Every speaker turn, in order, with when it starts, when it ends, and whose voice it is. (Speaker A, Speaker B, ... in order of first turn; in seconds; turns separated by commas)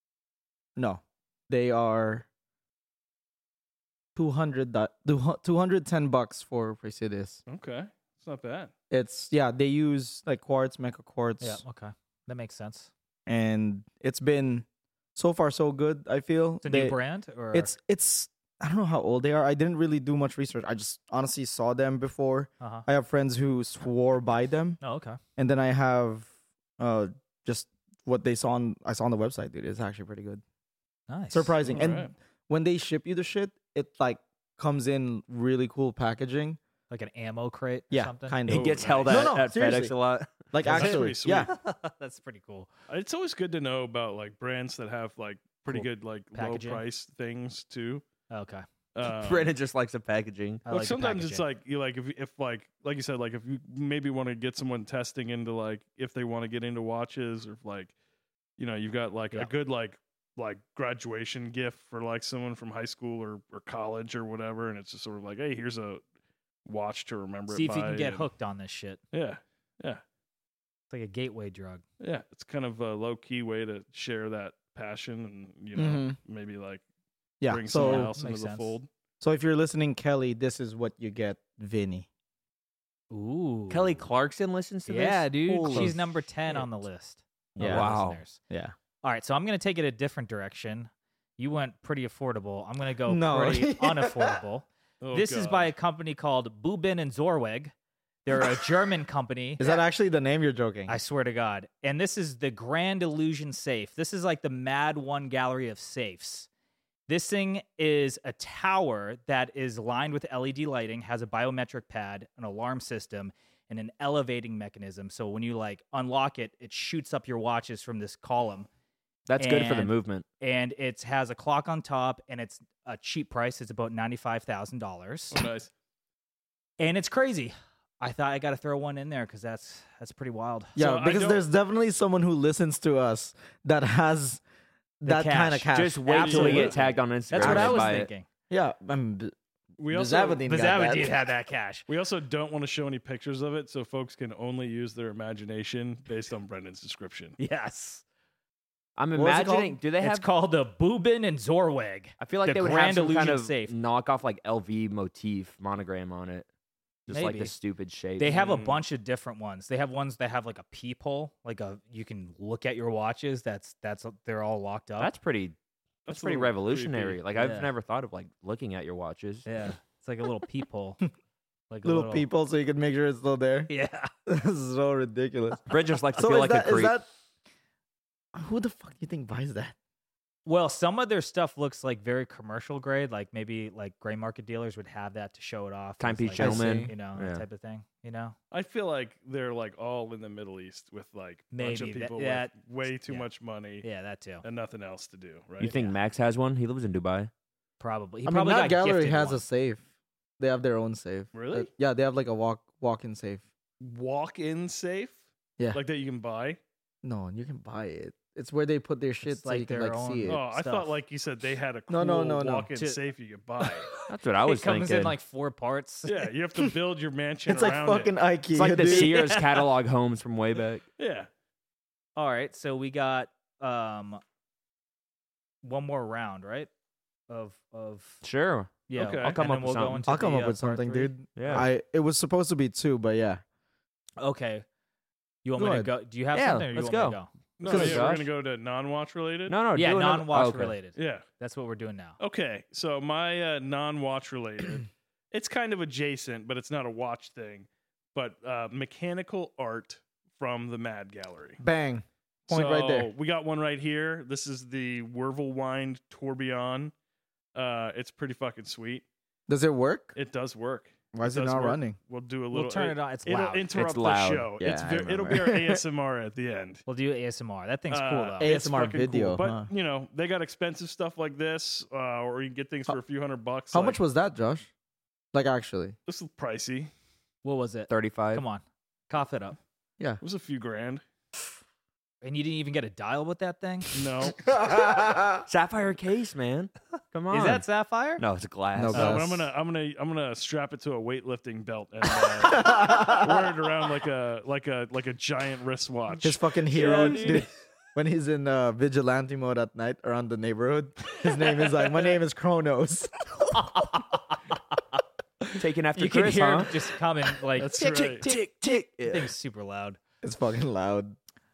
Speaker A: 0.8-2.2, Speaker A: 4.2-7.4, Speaker B: 7.5-8.7, Speaker A: 8.9-11.6, Speaker C: 11.4-12.9, Speaker A: 13.2-14.6, Speaker A: 15.2-17.0, Speaker C: 16.6-17.7, Speaker A: 17.5-24.8, Speaker C: 22.6-22.9, Speaker C: 24.8-25.2, Speaker A: 25.4-26.3, Speaker A: 26.8-30.4, Speaker C: 31.1-31.9, Speaker A: 31.3-36.6, Speaker B: 31.7-32.1, Speaker C: 36.9-38.4, Speaker A: 37.9-39.9, Speaker D: 38.5-40.5, Speaker B: 38.5-39.3, Speaker A: 40.5-41.5, Speaker B: 40.6-41.5, Speaker C: 40.6-42.7, Speaker B: 42.9-48.0, Speaker C: 45.7-46.8, Speaker C: 48.3-48.6, Speaker B: 48.9-49.5, Speaker D: 49.0-50.6, Speaker C: 50.6-51.4, Speaker B: 50.7-57.9, Speaker B: 58.6-66.0, Speaker B: 66.6-68.3, Speaker C: 67.5-69.0, Speaker B: 69.1-70.0, Speaker C: 70.9-71.8, Speaker B: 72.0-76.8, Speaker A: 75.7-76.2, Speaker A: 77.4-78.1, Speaker B: 77.5-78.9, Speaker C: 77.8-78.8, Speaker A: 79.2-82.1, Speaker C: 83.1-84.1, Speaker D: 83.7-86.0, Speaker C: 84.9-88.4, Speaker A: 87.6-87.9, Speaker D: 87.6-88.2, Speaker A: 88.5-88.7, Speaker C: 89.0-97.7, Speaker A: 93.0-94.4, Speaker B: 95.0-95.7, Speaker C: 98.2-99.6, Speaker A: 99.6-100.9, Speaker C: 100.9-106.5, Speaker C: 107.1-118.7, Speaker D: 119.3-120.2, Speaker C: 119.4-125.4, Speaker B: 125.3-125.7, Speaker C: 126.8-130.8, Speaker B: 130.8-131.4, Speaker A: 130.8-134.4, Speaker A: 135.0-136.7, Speaker C: 135.0-138.2, Speaker D: 135.7-138.1, Speaker B: 136.2-136.7, Speaker A: 137.3-137.8, Speaker A: 138.5-139.3, Speaker B: 139.8-140.4, Speaker A: 139.9-141.1, Speaker C: 140.5-141.8, Speaker B: 141.9-147.4, Speaker C: 147.4-148.0, Speaker D: 149.0-150.2, Speaker A: 149.1-149.8, Speaker C: 150.0-153.7, Speaker D: 152.2-156.5, Speaker C: 157.1-157.5, Speaker D: 157.1-158.4, Speaker C: 158.2-165.1, Speaker B: 158.3-158.8, Speaker D: 165.0-165.5, Speaker B: 166.1-167.2, Speaker D: 166.1-169.4, Speaker C: 167.3-167.7, Speaker C: 169.4-171.0, Speaker C: 171.7-172.3, Speaker A: 171.8-173.7, Speaker C: 173.7-174.1, Speaker A: 174.2-175.6, Speaker D: 175.7-176.9, Speaker A: 176.2-177.1, Speaker A: 178.3-179.8, Speaker C: 180.4-188.3, Speaker D: 186.0-187.4, Speaker A: 186.3-186.9, Speaker B: 188.5-193.8, Speaker C: 191.5-193.3, Speaker C: 193.8-194.4, Speaker B: 194.4-195.9, Speaker D: 195.6-197.3, Speaker C: 197.8-199.4, Speaker A: 198.2-199.8, Speaker A: 200.4-203.4, Speaker B: 201.3-201.7, Speaker B: 203.8-205.2, Speaker B: 205.7-206.6, Speaker A: 207.0-210.4, Speaker C: 209.2-210.9, Speaker B: 210.2-213.9, Speaker A: 211.9-212.7, Speaker C: 213.9-216.2, Speaker D: 214.1-215.2, Speaker B: 216.0-218.1, Speaker A: 217.5-219.2, Speaker D: 218.5-220.8, Speaker C: 218.8-219.7, Speaker B: 221.0-221.3, Speaker C: 222.2-224.2, Speaker C: 225.6-226.7, Speaker C: 227.3-228.2, Speaker D: 228.2-228.8, Speaker C: 228.9-231.1, Speaker B: 228.9-229.4, Speaker D: 229.3-230.1, Speaker A: 230.1-233.4, Speaker D: 231.3-231.7, Speaker C: 234.2-234.6, Speaker C: 235.4-237.3, Speaker A: 235.6-235.9, Speaker D: 236.3-238.3, Speaker B: 237.6-239.6, Speaker A: 237.7-238.1, Speaker D: 239.5-240.8, Speaker C: 239.7-242.2, Speaker B: 240.9-241.2, Speaker B: 242.2-251.6, Speaker A: 251.6-253.1, Speaker B: 252.5-256.9, Speaker B: 257.5-259.0, Speaker A: 259.5-260.1, Speaker B: 260.1-266.8, Speaker A: 261.1-261.9, Speaker C: 262.5-263.7, Speaker D: 263.7-264.5, Speaker A: 264.6-265.8, Speaker C: 266.9-268.5, Speaker B: 267.9-274.0, Speaker A: 268.4-269.7, Speaker A: 273.7-274.7, Speaker A: 275.3-275.9, Speaker B: 276.1-276.9, Speaker C: 277.4-279.6, Speaker D: 277.9-278.4, Speaker B: 280.2-281.0, Speaker C: 282.2-283.9, Speaker B: 283.9-284.4, Speaker A: 284.4-285.4, Speaker D: 285.5-287.6, Speaker C: 287.3-288.2, Speaker D: 288.2-289.2, Speaker A: 288.7-289.5, Speaker B: 288.9-297.5, Speaker A: 292.5-293.4, Speaker A: 296.2-303.5, Speaker C: 296.8-297.4, Speaker C: 303.5-304.4, Speaker D: 305.6-306.8, Speaker C: 305.9-307.8, Speaker B: 307.6-308.3, Speaker D: 307.7-309.3, Speaker C: 309.1-310.0, Speaker A: 310.2-311.1